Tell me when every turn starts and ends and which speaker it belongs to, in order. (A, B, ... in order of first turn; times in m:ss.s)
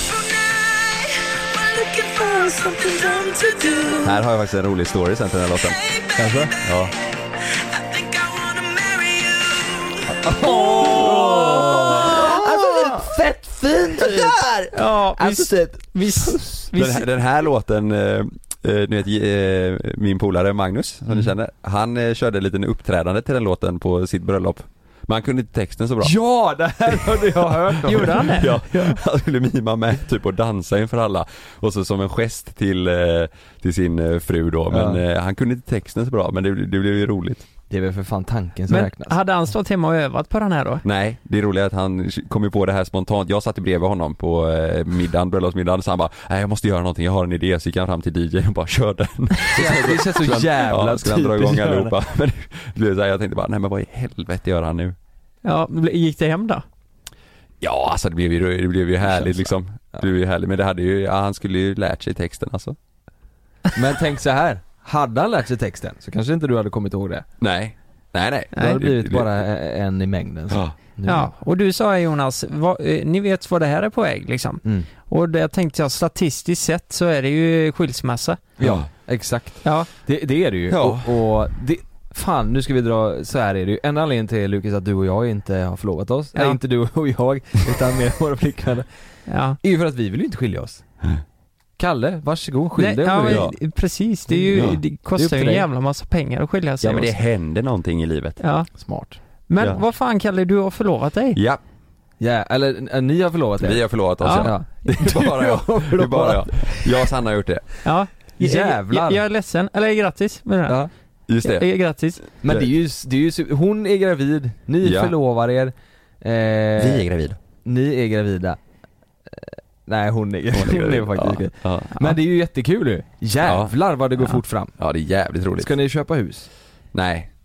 0:01.8-0:02.3 A
0:02.1-0:04.1 B
0:04.0-0:05.8 C
0:06.1-0:06.6 B
0:06.6-0:07.0 C
0:08.5-0:08.7 A
0:10.1-0:16.5 B
0:10.4-0:12.2 A
0:11.0-0:13.2 C
0:13.9-0:14.5 C
0:14.7-0:17.1 A
0:16.7-0:26.2 C
0:26.0-0:28.6 B
0:26.9-0:37.5 C
0:27.8-0:28.8 A
0:34.7-0:35.0 B
0:37.7-0:39.2 B
0:38.7-0:40.8 A
0:40.8-0:55.0 C
0:49.5-0:51.9 B
0:55.4-0:56.6 A
0:57.6-1:02.8 C
1:03.7-1:07.3 B
1:07.4-1:09.3 C
1:08.6-1:08.8 A
1:08.6-1:11.3 B
1:10.5-1:10.8 C
1:11.0-1:18.4 A
1:18.6-1:28.9 B
1:18.6-1:18.9 C
1:19.6-1:19.9 A
1:20.7-1:21.1 C
1:29.3-1:29.6 A
1:29.6-1:30.8 B
1:31.8-1:33.5 B
1:32.8-1:37.1 A
1:33.2-1:33.6 C
1:34.3-1:35.7 B
1:34.5-1:34.8 C
1:36.8-1:38.4 C
1:38.4-1:38.7 A
1:38.8-1:39.2 B
1:39.5-1:41.4 A
1:41.4-1:41.6 C
1:42.2-1:47.0 B
1:43.6-1:47.7 C
1:44.2-1:44.5 A
1:47.8-1:50.8 A
1:48.4-1:49.2 B
1:51.3-1:51.7 C
1:51.4-1:52.2 A
1:52.4-1:57.1 B
1:52.4-1:52.7 C
1:54.8-1:55.1 C
1:56.8-1:57.4 C
1:57.6-1:58.6 B
1:59.3-2:04.8 B
2:00.5-2:02.2 C
2:03.4-2:03.7 C
2:04.8-2:05.7 C
2:05.6-2:06.5 B
2:06.9-2:07.3 C